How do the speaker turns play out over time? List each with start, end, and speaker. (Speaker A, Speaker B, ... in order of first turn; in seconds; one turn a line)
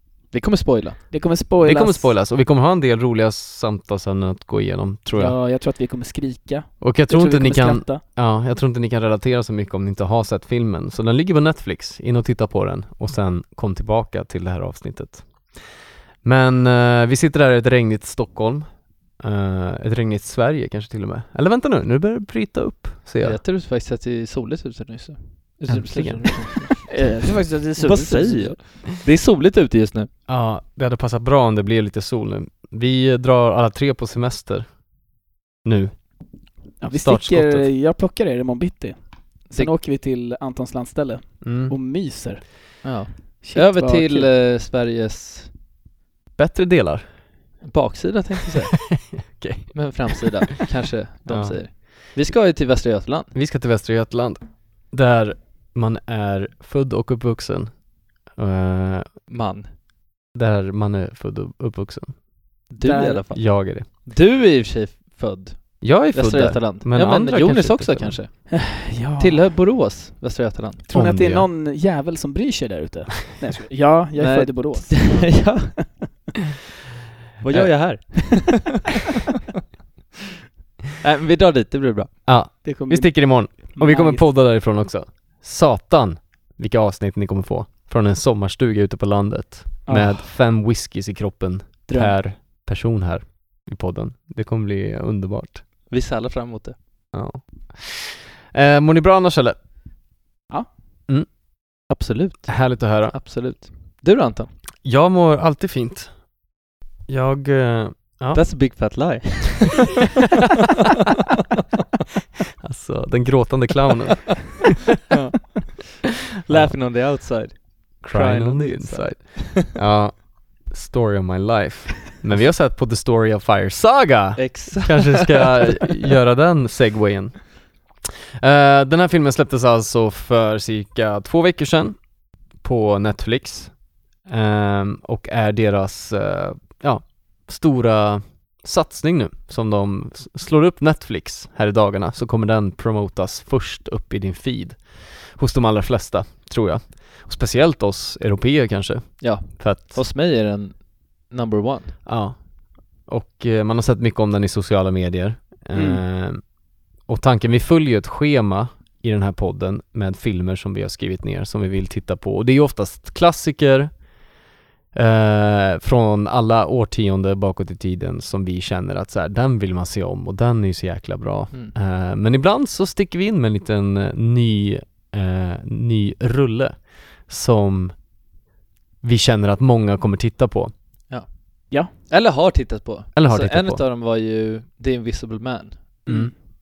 Speaker A: 0.3-1.0
Speaker B: 1.1-2.1
Speaker C: 1.6-5.3
Speaker B: 5.1-8.0
Speaker C: 6.8-15.3
Speaker C: 16.2-18.7
Speaker C: 19.2-23.4
Speaker A: 23.2-26.9
Speaker C: 25.7-26.3
Speaker B: 26.9-28.6
Speaker A: 27.8-30.1
Speaker C: 30.3-34.8
Speaker C: 35.6-36.1
Speaker B: 36.8-42.9
Speaker C: 36.9-37.7
Speaker C: 41.4-41.7
Speaker A: 42.8-45.5
Speaker B: 43.4-44.3
Speaker C: 46.4-47.0
Speaker A: 47.6-49.1
Speaker C: 48.9-50.2
Speaker A: 49.7-53.3
Speaker C: 51.3-51.9
Speaker C: 53.3-54.4
Speaker C: 54.9-57.7
Speaker C: 58.4-59.1
Speaker A: 59.3-59.7
Speaker C: 60.3-62.2
Speaker A: 62.7-68.6
Speaker B: 62.8-63.2
Speaker C: 63.3-63.9
Speaker C: 65.8-68.2
Speaker B: 68.5-69.5
Speaker A: 69.2-70.8
Speaker B: 70.9-75.8
Speaker C: 70.9-71.5
Speaker A: 74.2-75.8
Speaker A: 77.4-78.8
Speaker C: 77.5-77.8
Speaker A: 81.0-82.2
Speaker C: 82.2-95.6
Speaker B: 82.6-84.3
Speaker B: 89.8-90.2
Speaker B: 91.9-92.2
Speaker A: 95.9-96.7
Speaker C: 97.1-99.5
Speaker A: 101.9-104.5
Speaker C: 102.5-103.1
Speaker C: 104.8-106.1
Speaker C: 107.1-108.4
Speaker A: 108.3-109.9
Speaker C: 112.6-114.7
Speaker A: 115.1-119.7
Speaker C: 116.5-116.8
Speaker C: 118.0-127.5
Speaker A: 124.4-125.8
Speaker C: 128.4-132.0
Speaker C: 132.6-133.7
Speaker C: 134.2-150.0
Speaker A: 149.2-152.0
Speaker C: 152.1-152.4
Speaker C: 153.0-156.4
Speaker B: 155.7-156.0
Speaker C: 157.1-163.9
Speaker C: 164.9-177.9
Speaker C: 179.0-180.7
Speaker A: 181.9-186.1
Speaker C: 183.1-183.8
Speaker B: 186.1-186.3